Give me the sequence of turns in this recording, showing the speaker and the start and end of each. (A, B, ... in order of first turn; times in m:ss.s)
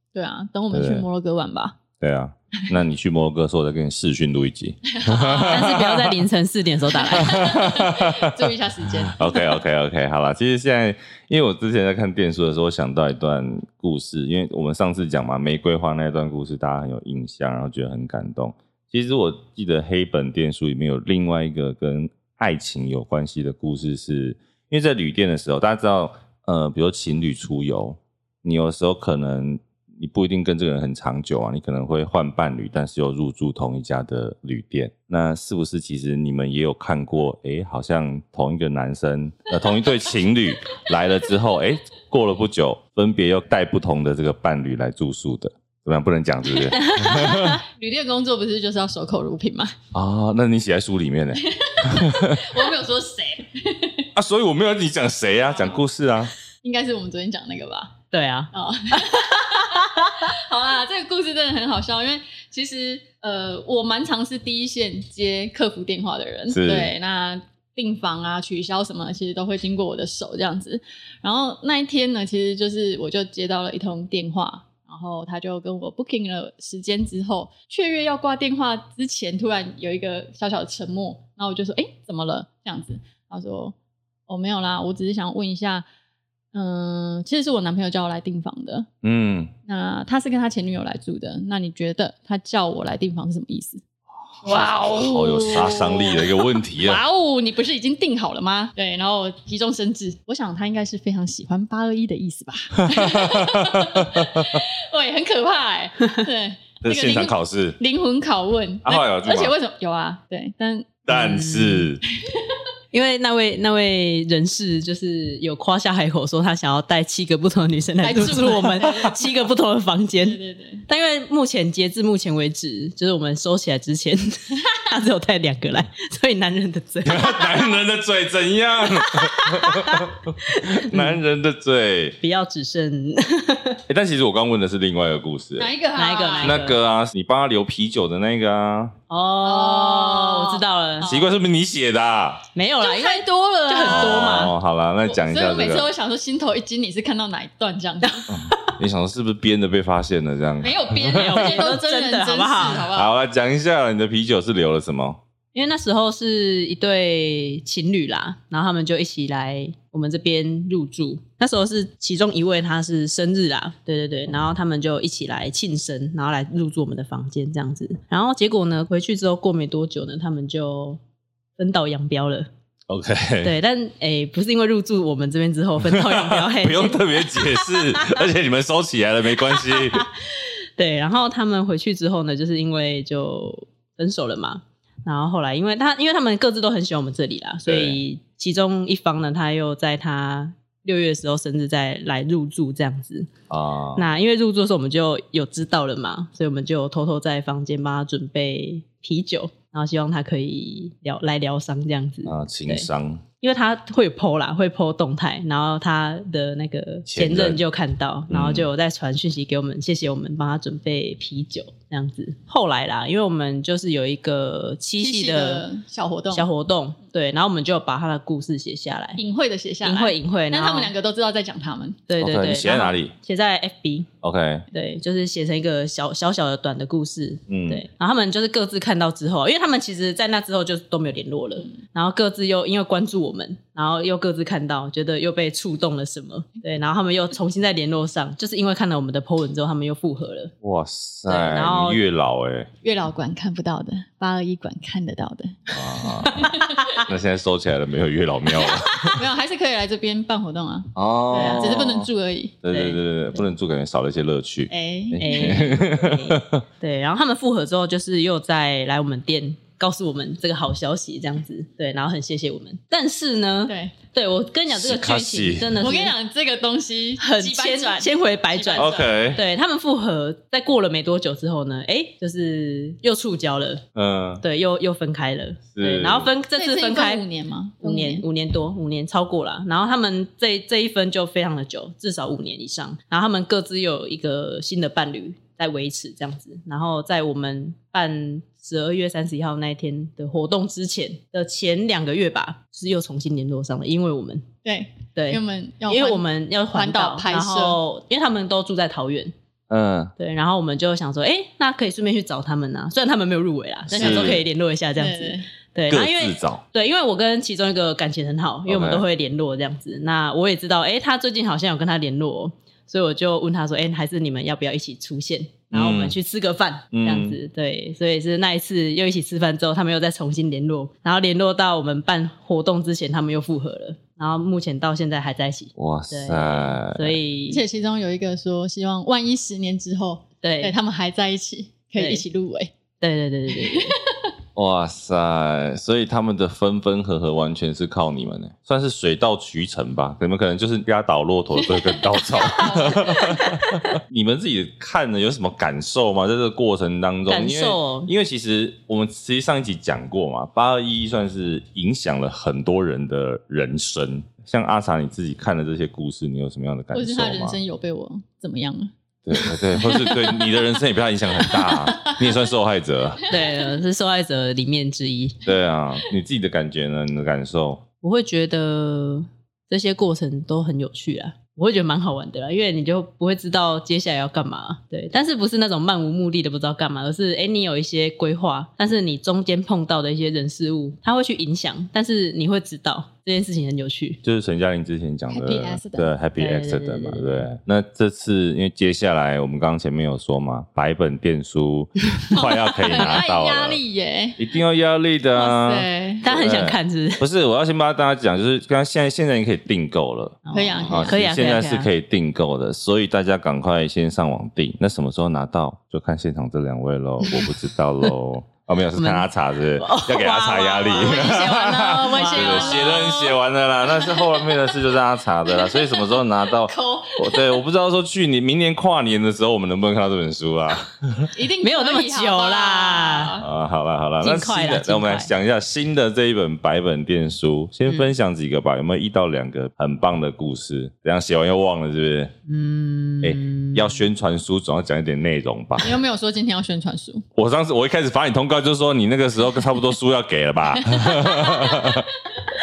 0:00.1-0:01.8 A
0:00.7-0:01.0 B
0:02.0-0:06.2 B
0:04.8-0:05.8 A
0:05.4-0:07.5 C
0:07.0-0:09.6 A
0:07.2-0:08.5 B
0:09.0-0:47.6 B
0:46.8-0:47.6 C
0:46.9-0:49.7 A
0:49.9-0:52.5 B
0:51.4-0:54.1 A
0:54.1-0:56.3 B
0:56.6-0:58.0 A
0:58.1-1:00.3 C
0:58.5-1:23.7 A
1:06.5-1:06.9 B
1:24.3-1:25.8 A
1:26.5-1:28.9 A
1:29.0-1:29.5 B
1:29.7-1:33.8 A
1:34.4-1:37.0 B
1:34.4-1:51.0 A
1:42.8-1:44.6 B
1:46.8-1:47.8 B
1:48.8-1:49.5 B
1:51.1-1:52.0 B
1:51.1-1:51.9 C
1:52.2-1:52.6 A
1:52.9-2:07.7 C
1:58.0-1:59.3 A
2:00.2-2:00.8 A
2:07.0-2:12.2 B
2:08.9-2:11.2 C
2:12.2-2:13.8 C
2:13.9-2:15.7 B
2:15.6-2:16.6 A
2:15.9-2:16.8 C
2:16.4-2:18.9 B
2:19.1-2:21.1 C
2:19.4-2:21.3 A
2:21.0-2:22.4 B
2:22.5-2:24.5 C
2:22.8-2:24.5 A
2:23.9-2:25.9 B
2:25.0-2:28.3 A
2:28.3-2:31.4 B
2:30.6-2:33.1 A
2:31.1-2:32.9 C
2:32.9-2:35.2 B
2:35.5-2:51.0 C
2:51.6-2:52.5 C
2:52.9-2:53.5 B
2:53.4-2:58.2 C
2:55.8-3:00.0 B
2:59.5-3:13.3 C
3:07.7-3:08.0 B
3:13.5-3:14.1 B
3:14.0-3:22.9 C
3:22.2-3:23.2 B
3:23.4-3:35.6 C
3:27.1-3:27.6 B
3:28.3-3:28.7 B
3:35.0-3:36.5 A
3:36.3-3:39.2 C
3:39.2-3:42.0 A
3:39.8-3:40.9 C
3:42.1-3:44.1 C
3:42.2-3:43.1 B
3:44.2-3:44.6 B
3:44.7-4:00.5 C
3:47.5-3:47.8 B
4:00.6-4:02.7 B
4:01.3-4:02.0 C
4:02.8-4:07.0 A
4:05.7-4:09.2 B
4:09.0-4:12.5 A
4:10.9-4:12.1 B
4:11.3-4:11.8 C
4:12.6-4:16.6 B
4:12.7-4:13.4 C
4:14.7-4:15.7 A
4:15.2-4:26.1 C
4:23.7-4:23.9 A
4:24.7-4:25.8 B
4:25.8-4:29.2 A
4:27.2-4:33.8 C
4:28.8-4:29.4 B
4:33.9-4:34.4 B
4:34.4-4:37.2 C
4:35.7-4:36.3 B
4:36.5-4:38.2 A
4:37.8-4:54.5 C
4:54.6-4:57.8 A
4:55.2-4:59.3 C
4:59.7-5:00.1 B
5:00.2-5:27.6 C
5:03.9-5:04.4 B
5:03.9-5:05.5 A
5:05.9-5:06.6 B
5:08.7-5:09.0 B
5:15.7-5:16.2 B
5:16.9-5:17.4 B
5:25.8-5:27.2 B
5:27.5-5:32.7 A
5:30.4-5:30.7 C
5:32.0-5:32.2 C
5:33.0-5:33.9 C
5:33.5-5:34.3 A
5:34.5-5:57.6 B
5:41.6-5:43.4 A
5:47.3-5:48.1 C
5:56.9-6:00.5 A
5:59.2-6:03.3 B
6:01.5-6:02.1 A
6:03.3-6:05.4 C
6:05.4-6:07.8 B
6:08.0-6:24.2 C
6:24.2-6:33.8 B
6:25.3-6:26.1 A
6:26.4-6:27.5 C
6:32.3-6:34.4 A
6:34.4-7:01.3 B
6:35.3-6:36.2 A
6:36.2-6:37.2 C
6:40.4-6:41.9 C
6:40.5-6:41.2 A
6:47.2-6:47.5 C
6:49.0-6:51.5 C
6:50.7-6:53.4 A
6:52.0-6:53.0 C
6:53.9-6:54.7 A
6:55.5-6:57.6 A
7:01.3-7:03.4 A
7:01.6-7:03.4 C
7:03.4-7:12.3 B
7:04.2-7:05.3 C
7:12.5-7:14.0 C
7:13.2-7:15.9 B
7:15.8-7:17.2 A
7:17.4-7:22.1 B
7:20.8-7:22.0 A